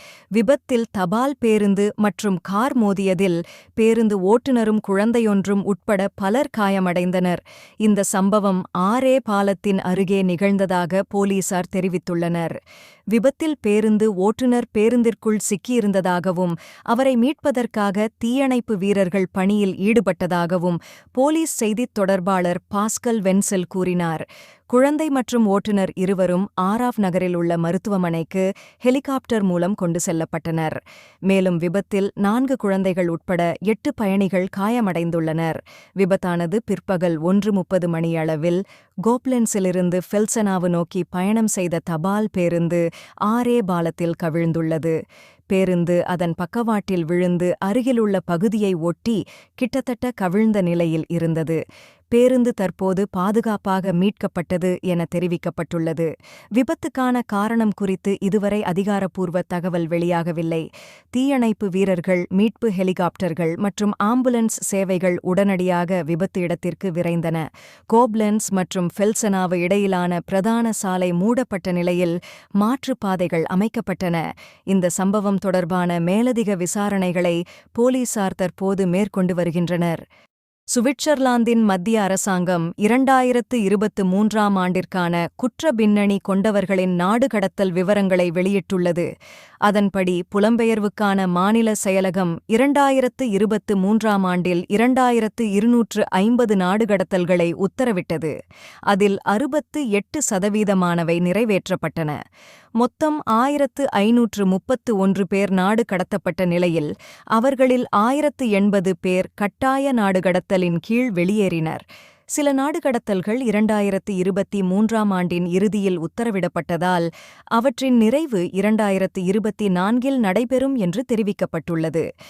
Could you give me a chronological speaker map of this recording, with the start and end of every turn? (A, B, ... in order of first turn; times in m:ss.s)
0:00.4-0:12.6 A
0:13.1-0:45.0 A
0:45.5-0:51.6 A
0:52.1-1:20.0 A
1:20.7-1:29.1 A
1:29.7-1:38.3 A
1:38.9-1:42.2 A
1:42.8-2:02.0 A